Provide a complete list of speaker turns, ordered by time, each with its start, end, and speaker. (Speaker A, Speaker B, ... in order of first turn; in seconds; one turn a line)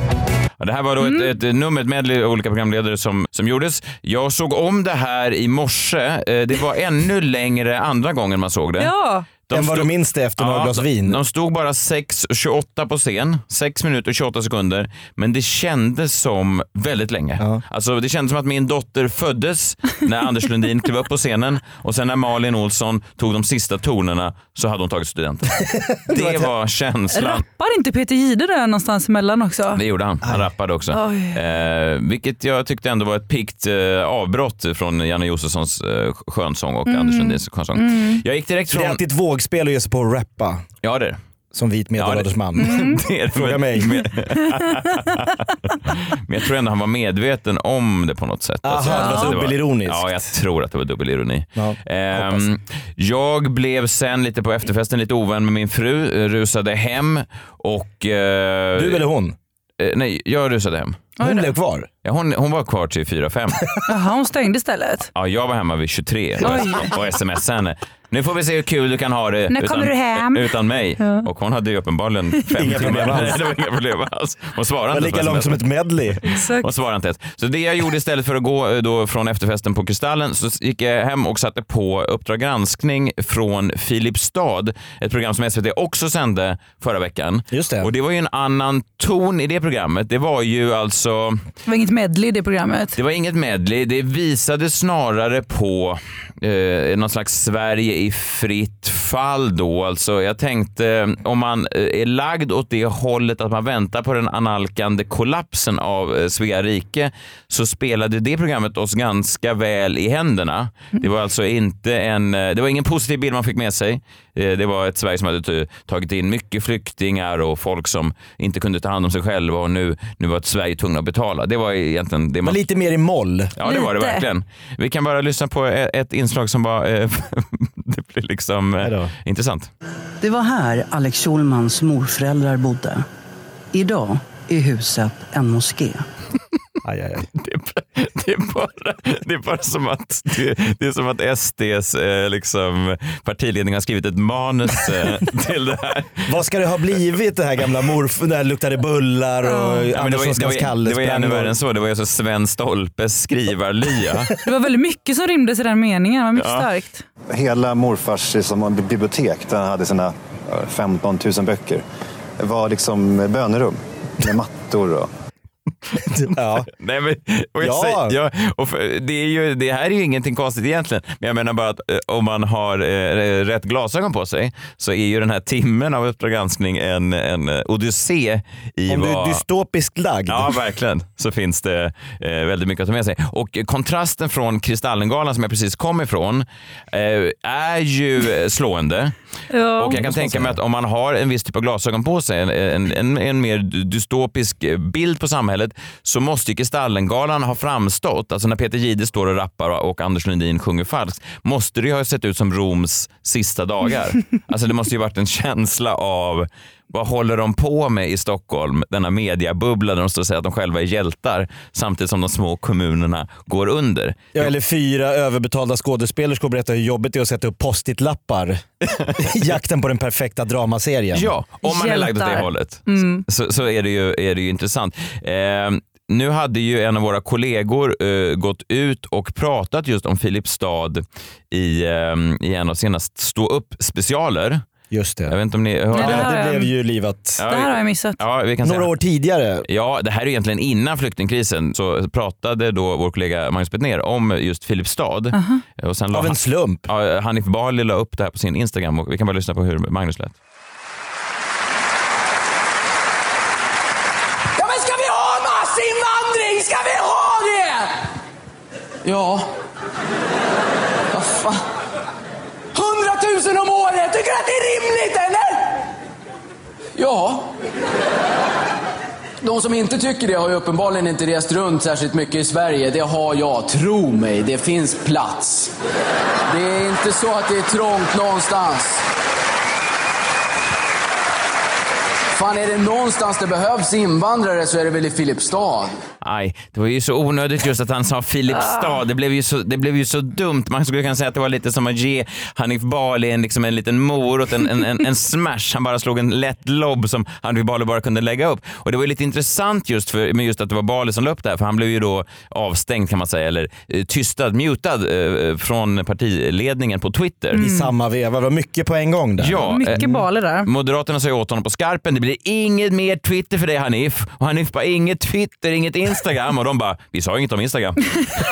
Speaker A: 0.6-8.9
Speaker B: 1.0-1.3
Speaker B: 8.8-9.3
Speaker A: 9.4-27.4
Speaker C: 9.5-11.2
Speaker C: 26.1-26.5
Speaker B: 27.1-29.8
Speaker A: 29.7-39.0
Speaker B: 30.9-31.4
Speaker B: 36.9-38.2
Speaker C: 38.7-40.6
Speaker A: 40.8-41.2
Speaker C: 41.5-44.0
Speaker A: 42.0-59.0
Speaker B: 42.6-43.0
Speaker C: 48.6-50.2
Speaker B: 48.9-49.4
Speaker C: 51.6-52.5
Speaker C: 58.8-59.4
Speaker A: 59.8-61.1
Speaker B: 61.2-61.6
Speaker C: 61.2-61.9
Speaker A: 62.0-63.6
Speaker B: 63.9-65.1
Speaker A: 65.1-75.6
Speaker B: 66.4-67.0
Speaker B: 69.5-71.3
Speaker C: 72.5-73.4
Speaker C: 74.9-76.2
Speaker A: 76.2-91.4
Speaker B: 76.3-76.7
Speaker C: 87.5-87.9
Speaker B: 91.7-93.0
Speaker A: 93.0-122.6
Speaker C: 122.4-123.5
Speaker A: 123.6-129.7
Speaker B: 123.6-124.3
Speaker C: 128.8-129.1
Speaker D: 130.2-133.1
Speaker D: 133.7-136.1
Speaker C: 136.8-137.3
Speaker A: 137.3-146.2
Speaker C: 146.3-151.6
Speaker B: 149.4-149.9
Speaker A: 149.9-154.3
Speaker B: 154.4-157.1
Speaker A: 156.4-156.7
Speaker E: 157.3-161.8
Speaker E: 162.4-165.1
Speaker C: 166.1-166.7
Speaker A: 166.7-179.4
Speaker C: 167.6-168.2
Speaker C: 178.9-180.5
Speaker A: 180.3-189.1
Speaker B: 189.5-190.0
Speaker A: 189.8-214.5
Speaker C: 190.0-190.6
Speaker C: 214.3-218.6
Speaker C: 219.2-221.3
Speaker A: 221.1-234.6
Speaker B: 221.6-223.3
Speaker C: 234.9-235.4
Speaker A: 235.3-236.4
Speaker B: 235.9-236.7
Speaker C: 235.9-237.4
Speaker A: 237.4-238.9
Speaker B: 237.5-238.2
Speaker C: 238.6-239.7
Speaker A: 239.7-250.4
Speaker B: 245.3-245.6
Speaker C: 246.1-246.9
Speaker F: 254.6-257.9
Speaker F: 259.0-259.5
Speaker F: 261.1-261.6
Speaker F: 262.7-265.7
Speaker F: 267.0-267.5
Speaker F: 269.4-275.7
Speaker F: 276.5-279.0
Speaker F: 282.3-285.9
Speaker A: 286.2-307.6
Speaker B: 288.6-288.9
Speaker B: 307.6-307.9
Speaker C: 307.6-310.1
Speaker A: 309.4-318.1
Speaker B: 309.6-310.7